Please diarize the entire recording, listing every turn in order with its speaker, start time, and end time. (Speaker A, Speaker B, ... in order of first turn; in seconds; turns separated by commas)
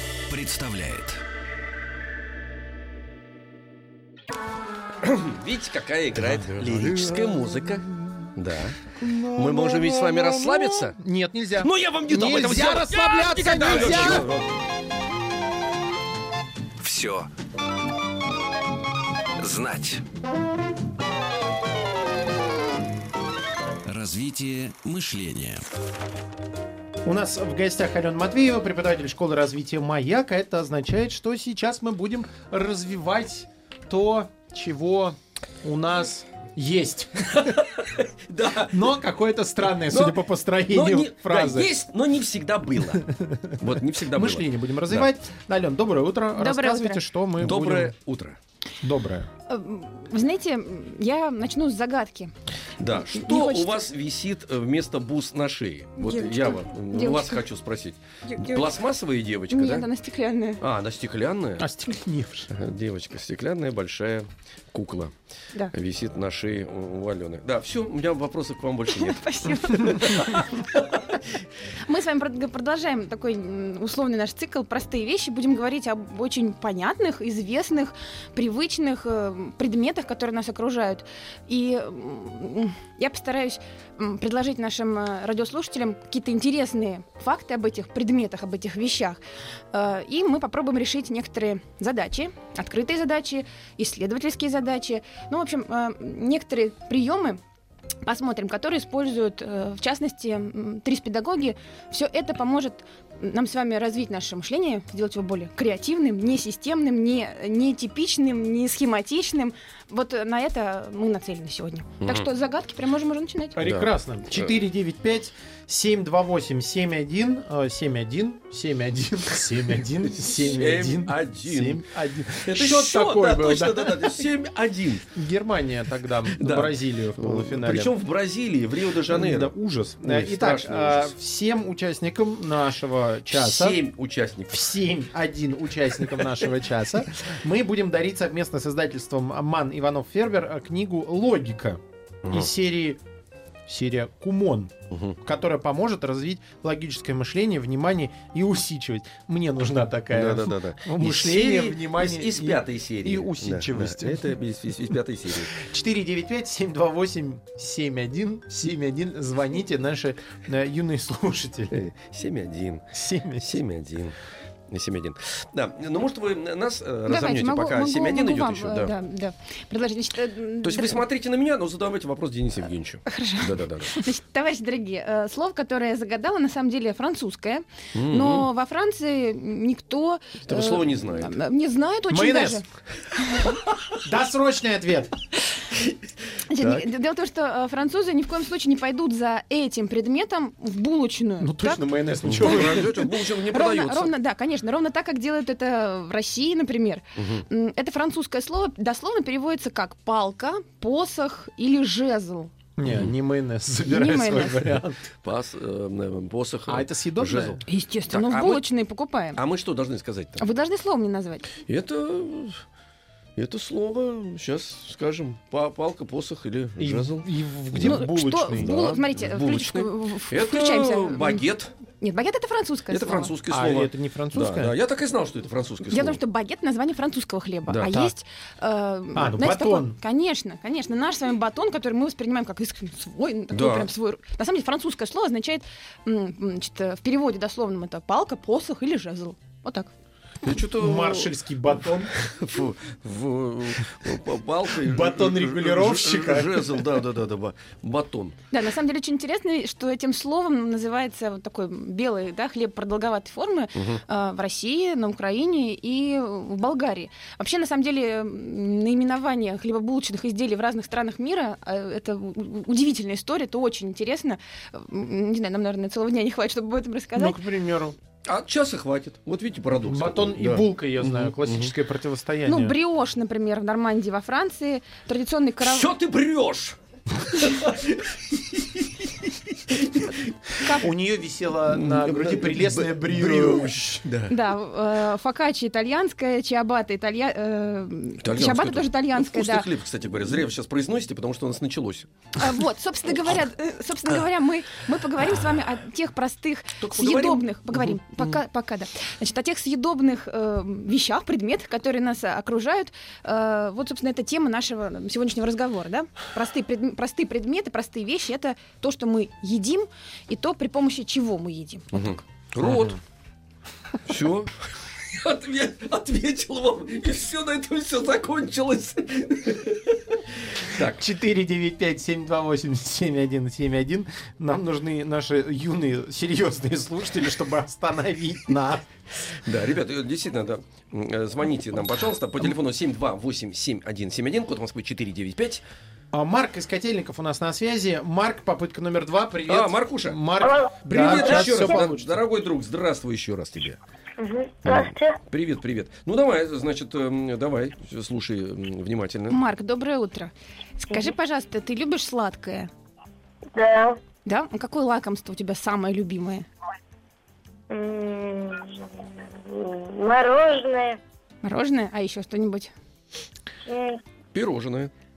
Speaker A: 0.3-1.2, Speaker B: 5.0-11.0, Speaker C: 6.1-8.3, Speaker C: 9.0-14.3, Speaker B: 11.6-14.5, Speaker A: 16.8-17.3, Speaker A: 19.4-20.0, Speaker A: 23.9-25.6, Speaker C: 27.0-37.6, Speaker B: 37.3-39.0, Speaker C: 38.7-41.7, Speaker B: 39.7-43.0, Speaker C: 42.9-47.9, Speaker B: 43.6-45.1, Speaker D: 46.4-47.0, Speaker B: 47.4-48.4, Speaker C: 48.8-49.3, Speaker D: 49.5-52.3, Speaker B: 52.8-59.9, Speaker D: 53.1-53.9, Speaker D: 56.0-57.4, Speaker D: 58.2-58.7, Speaker D: 59.5-60.6, Speaker B: 60.6-61.7, Speaker C: 61.6-62.5, Speaker B: 62.5-65.1, Speaker B: 65.7-71.2, Speaker D: 68.9-70.4, Speaker D: 71.9-89.2, Speaker D: 89.7-97.4, Speaker D: 98.0-113.6, Speaker C: 113.5-124.3, Speaker B: 113.6-114.5, Speaker B: 120.3-121.8, Speaker B: 122.3-125.0, Speaker C: 125.1-127.9, Speaker B: 126.2-131.1, Speaker C: 129.1-133.8, Speaker B: 133.3-134.8, Speaker C: 134.5-143.0, Speaker B: 142.2-142.5, Speaker C: 143.7-154.4, Speaker B: 144.9-145.2, Speaker B: 150.1-155.6, Speaker C: 155.5-161.8, Speaker B: 161.7-162.8, Speaker C: 162.9-163.5, Speaker B: 163.4-164.2, Speaker B: 164.7-168.9, Speaker D: 167.1-171.0, Speaker B: 170.6-174.1, Speaker D: 173.1-182.6, Speaker B: 177.9-178.5, Speaker B: 180.4-181.4, Speaker C: 182.1-182.6, Speaker B: 183.4-184.0, Speaker C: 184.0-185.1, Speaker D: 186.5-191.8, Speaker B: 186.6-186.8, Speaker C: 191.4-192.9, Speaker B: 192.3-194.1, Speaker D: 192.4-202.5, Speaker B: 197.2-197.4, Speaker C: 202.8-205.1, Speaker D: 203.9-204.7, Speaker B: 205.2-208.7, Speaker C: 206.7-207.6, Speaker D: 207.7-209.4, Speaker B: 209.3-210.4, Speaker D: 210.4-211.5, Speaker B: 211.7-212.6, Speaker B: 213.3-218.1, Speaker C: 216.8-218.8, Speaker D: 217.8-221.4, Speaker B: 218.6-221.7, Speaker D: 222.0-223.3, Speaker B: 222.9-226.2, Speaker C: 223.5-224.8, Speaker D: 225.9-239.9, Speaker B: 227.7-227.9, Speaker C: 227.9-228.1, Speaker C: 229.1-230.0, Speaker B: 233.5-233.9, Speaker B: 240.4-241.3, Speaker C: 240.6-242.1, Speaker B: 242.2-248.3, Speaker C: 244.8-247.0, Speaker D: 248.5-267.4, Speaker C: 267.1-267.9, Speaker B: 268.2-271.7, Speaker C: 269.9-272.8, Speaker D: 272.4-275.9, Speaker B: 275.6-280.3, Speaker C: 280.6-284.1, Speaker B: 281.7-284.4, Speaker D: 284.3-289.7, Speaker B: 288.2-292.1, Speaker D: 292.4-312.1, Speaker B: 296.8-298.0, Speaker B: 311.9-313.0, Speaker C: 312.6-313.0, Speaker B: 314.0-314.5, Speaker B: 315.1-321.1, Speaker C: 320.9-328.9, Speaker B: 329.4-335.6, Speaker C: 336.1-342.2, Speaker B: 339.5-343.8, Speaker E: 340.4-340.7, Speaker E: 344.2-345.2, Speaker B: 344.6-349.4, Speaker D: 349.3-352.7, Speaker E: 353.5-354.0, Speaker D: 354.2-356.5, Speaker E: 357.7-361.0, Speaker D: 361.4-362.7, Speaker E: 363.7-364.0, Speaker B: 364.3-364.9